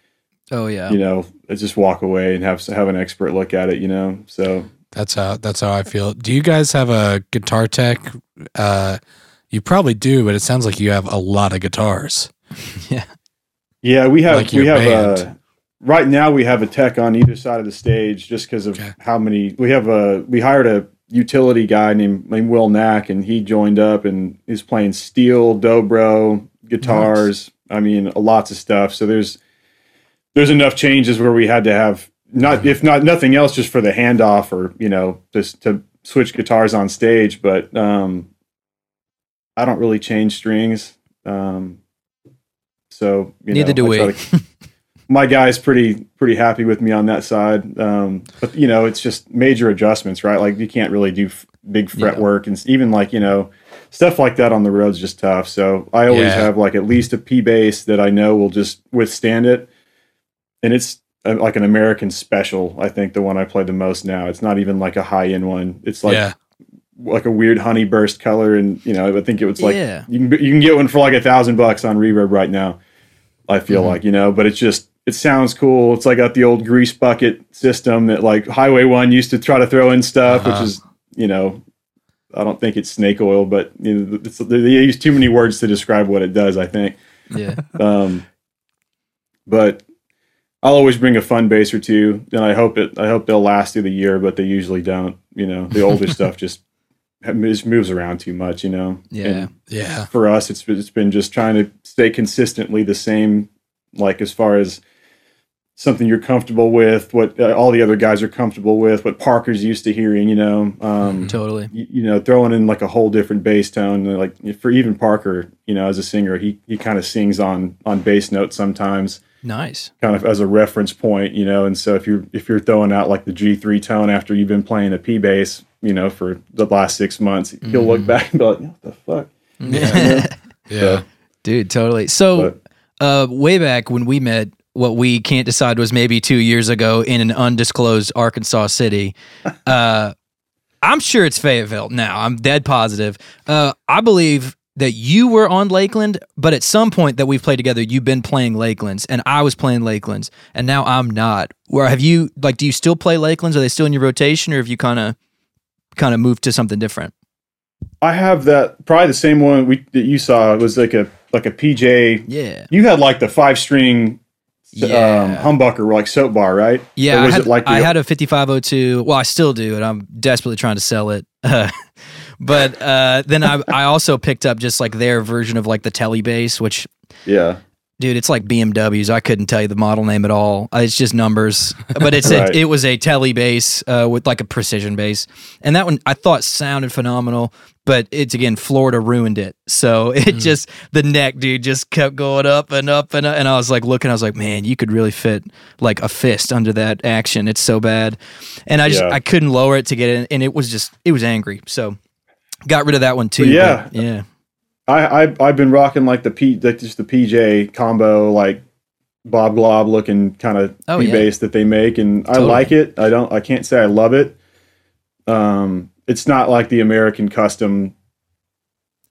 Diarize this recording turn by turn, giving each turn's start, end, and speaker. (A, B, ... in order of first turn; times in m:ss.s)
0:00.5-0:01.0 A
0:00.9-0:04.7 B
0:04.9-0:09.0 C
0:09.5-0:12.3 C
0:12.7-0:13.1 A
0:13.8-0:29.4 B
0:14.3-0:15.2 C
0:26.8-0:27.2 A
0:30.3-0:38.3 B
0:39.6-0:41.8 B
0:42.9-0:44.2 B
0:43.5-0:44.4 A
0:45.1-0:59.7 B
0:52.0-0:52.2 A
0:56.1-0:56.5 C
1:00.6-1:06.2 B
1:06.0-1:06.3 C
1:07.0-1:12.8 B
1:09.6-1:10.1 A
1:13.5-1:21.6 B
1:13.7-1:14.0 A
1:20.3-1:20.7 C
1:22.3-1:27.0 B
1:27.3-1:27.6 A
1:27.7-1:28.2 B
1:29.5-1:29.8 B
1:30.6-1:36.6 B
1:37.2-1:39.5 B
1:39.1-1:39.5 A
1:39.7-1:40.1 C
1:40.1-1:44.8 B
1:45.8-1:59.2 B
1:51.2-1:51.7 A
1:59.4-1:59.9 A
2:00.0-2:11.0 B
2:07.6-2:08.1 A
2:09.6-2:10.3 A
2:09.7-2:10.0 C
2:10.7-2:11.0 C
2:11.4-2:19.1 A
2:19.6-2:20.1 A
2:20.8-2:35.2 A
2:36.0-2:37.1 A
2:38.0-2:44.2 B
2:42.3-2:42.7 A
2:44.7-2:47.9 B
2:44.8-2:45.5 A
2:47.0-2:51.8 A
2:52.4-2:56.9 A
2:57.2-2:57.6 B
2:58.0-3:22.0 A
3:02.2-3:02.6 B
3:18.9-3:19.2 B
3:22.7-3:24.2 A
3:23.4-3:23.9 B
3:24.9-3:28.6 B
3:29.2-3:34.4 B
3:30.9-3:31.3 A
3:32.3-3:32.7 A
3:35.3-3:37.9 B